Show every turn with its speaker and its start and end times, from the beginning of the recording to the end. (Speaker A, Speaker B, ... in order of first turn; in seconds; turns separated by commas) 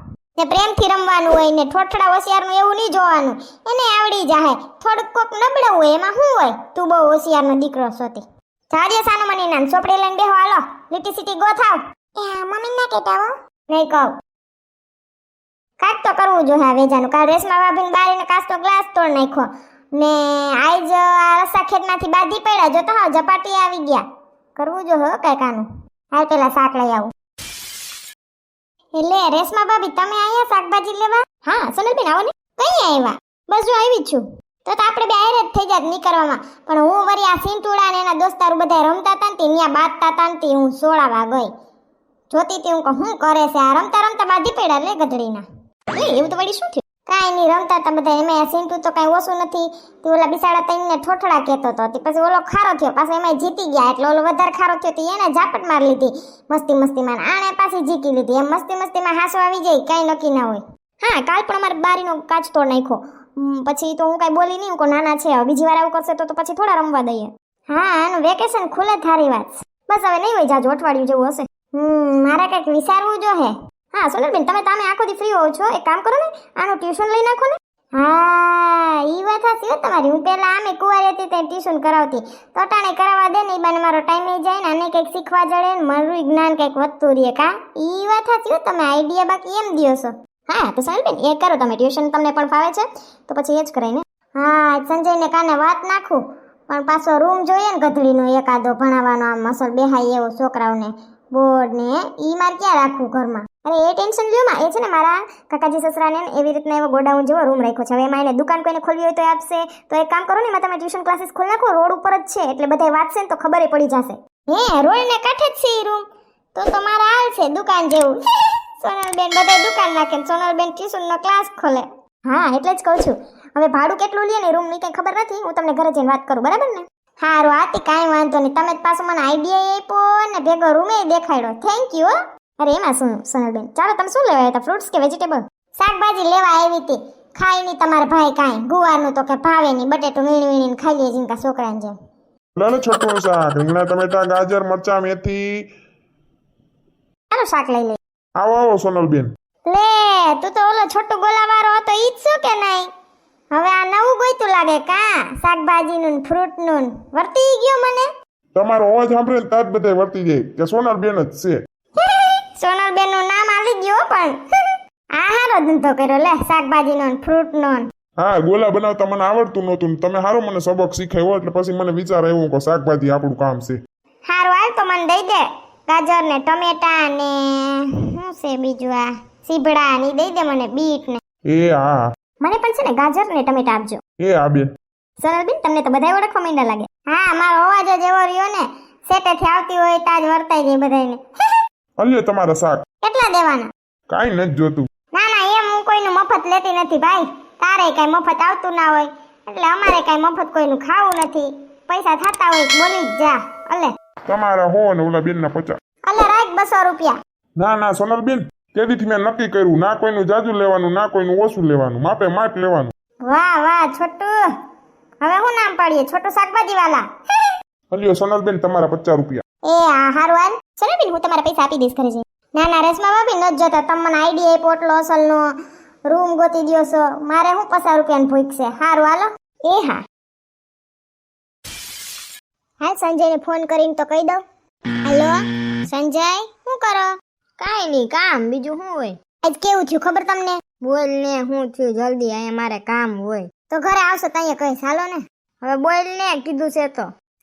Speaker A: 0.3-14.1, Speaker A: 15.8-24.0, Speaker A: 24.6-27.1, Speaker A: 28.9-41.5, Speaker A: 42.3-116.0, Speaker A: 116.5-118.2, Speaker A: 118.8-141.9, Speaker B: 142.6-145.6, Speaker A: 147.3-148.0, Speaker B: 148.4-149.3, Speaker A: 149.7-152.9, Speaker A: 153.5-158.1, Speaker B: 158.6-161.6, Speaker A: 162.0-167.9, Speaker B: 168.2-173.8, Speaker A: 174.2-181.2, Speaker B: 181.5-182.1, Speaker A: 182.4-184.0, Speaker B: 184.2-184.7, Speaker A: 185.2-191.2, Speaker B: 192.0-192.8, Speaker A: 193.0-193.7, Speaker B: 194.1-194.9, Speaker A: 195.1-203.9, Speaker B: 204.3-205.8, Speaker A: 206.1-207.2, Speaker B: 207.6-212.9, Speaker A: 213.2-214.5, Speaker A: 215.2-217.5, Speaker B: 217.9-219.4, Speaker A: 219.7-225.6, Speaker A: 226.1-230.0, Speaker A: 232.8-234.4, Speaker A: 235.0-237.1, Speaker C: 237.6-239.2, Speaker A: 239.4-240.6, Speaker C: 240.8-243.5, Speaker A: 243.7-245.2, Speaker C: 245.6-247.1